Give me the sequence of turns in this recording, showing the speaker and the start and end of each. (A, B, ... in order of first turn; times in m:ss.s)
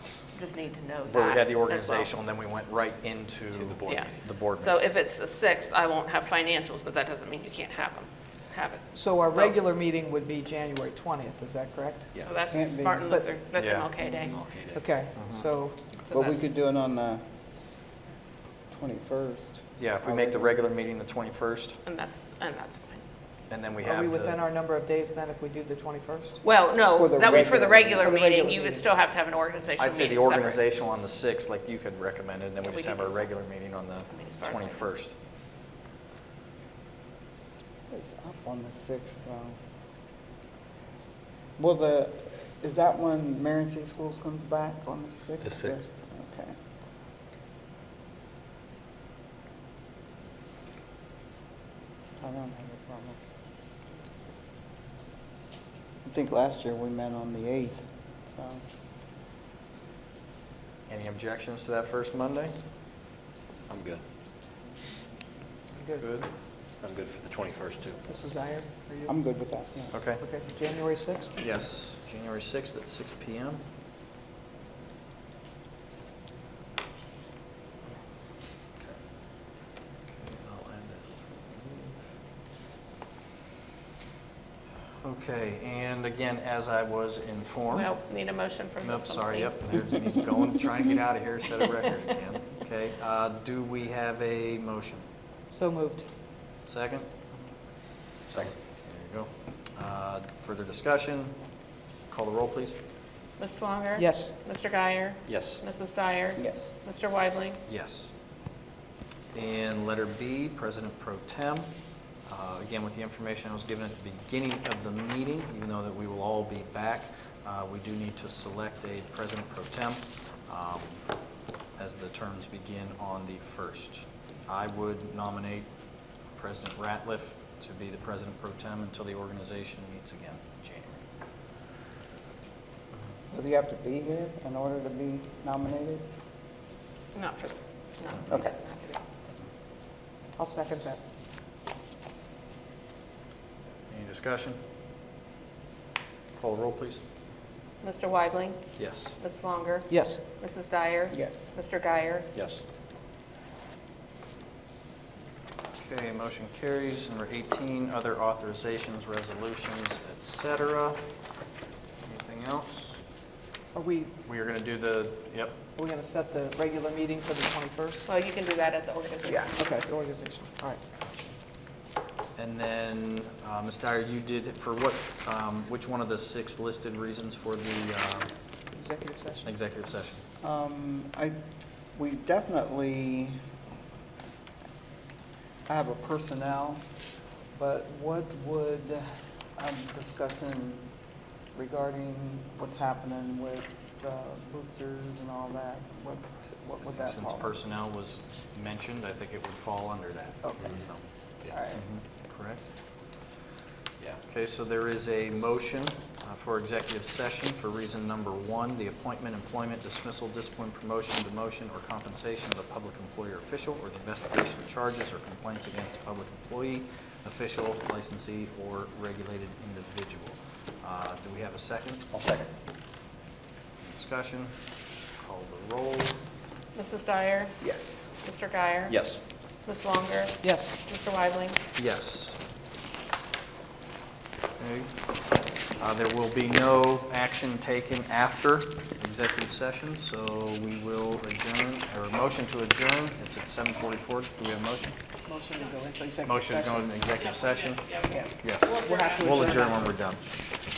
0:00.3-0:02.1 A
0:01.1-0:04.7 B
0:03.5-0:04.3 C
0:03.9-0:08.8 A
0:08.9-0:12.1 D
0:12.1-0:12.4 C
0:12.2-0:14.4 A
0:12.4-0:13.1 E
0:13.1-0:13.4 D
0:13.6-0:13.9 B
0:14.1-0:14.9 C
0:14.7-0:15.8 D
0:15.1-0:15.5 B
0:16.1-0:17.2 E
0:16.1-0:16.4 A
0:18.7-0:20.6 E
0:19.8-0:21.8 B
0:21.8-0:23.0 A
0:23.5-0:24.4 B
0:23.8-0:26.4 D
0:26.4-0:30.6 A
0:26.9-0:28.1 E
0:28.0-0:28.9 D
0:29.8-0:35.1 B
0:32.6-0:33.3 A
0:34.1-0:34.9 A
0:37.9-0:39.6 E
0:41.6-0:46.5 E
0:52.2-0:53.2 E
0:54.0-0:54.3 E
0:56.0-0:58.6 E
1:00.9-1:02.6 B
1:03.7-1:04.0 C
1:05.7-1:06.0 D
1:06.0-1:06.3 B
1:06.8-1:08.2 C
1:08.1-1:09.1 D
1:09.0-1:10.0 E
1:09.9-1:10.2 B
1:10.2-1:11.5 D
1:11.4-1:13.6 B
1:20.1-1:22.0 B
1:25.0-1:27.9 B
1:27.7-1:29.6 A
1:28.8-1:35.0 B
1:35.5-1:36.1 D
1:36.6-1:37.1 B
1:38.3-1:38.6 C
1:38.4-1:41.4 B
1:42.1-1:42.8 B
1:43.4-1:47.6 A
1:44.0-1:44.3 D
1:45.2-1:45.6 C
1:46.4-1:46.7 E
1:47.6-1:48.1 B
1:49.3-1:51.7 B
1:52.2-2:01.0 B
2:01.8-2:05.7 B
2:06.4-2:11.0 B
2:13.3-2:16.0 E
2:17.1-2:19.0 A
2:20.4-2:21.0 D
2:23.9-2:24.6 B
2:26.4-2:27.0 B
2:27.8-2:28.6 A
2:28.8-2:29.2 B
2:29.2-2:32.3 A
2:29.9-2:30.2 D
2:31.1-2:31.5 E
2:32.3-2:32.6 C
2:35.8-2:41.0 B
2:42.0-2:43.0 B
2:43.7-2:44.1 D
2:44.2-2:45.5 B
2:45.8-2:48.0 D
2:48.0-2:49.5 A
2:49.5-2:50.8 D
2:52.4-2:58.3 B
2:58.7-2:59.5 D
2:59.4-3:00.2 B
3:00.4-3:01.4 E
3:01.9-3:03.4 E
3:05.7-3:06.8 E
3:07.5-3:10.8 E
3:11.5-3:17.5 E
3:16.8-3:21.0 B
3:21.7-3:22.6 B
3:24.3-3:42.0 B
3:42.1-3:42.5 C
3:43.8-3:44.5 B
3:45.2-3:46.2 B
3:46.7-3:47.6 A
3:47.6-3:48.1 E
3:48.2-3:48.9 A
3:48.9-3:49.2 C
3:49.6-3:51.6 A
3:50.4-3:50.8 D
3:51.8-3:52.4 B
3:54.6-3:54.9 B
3:55.8-4:05.0 B
4:05.3-4:06.9 D
4:06.2-4:07.9 B
4:08.4-4:10.2 B
4:08.6-4:09.2 A
4:08.8-4:09.9 D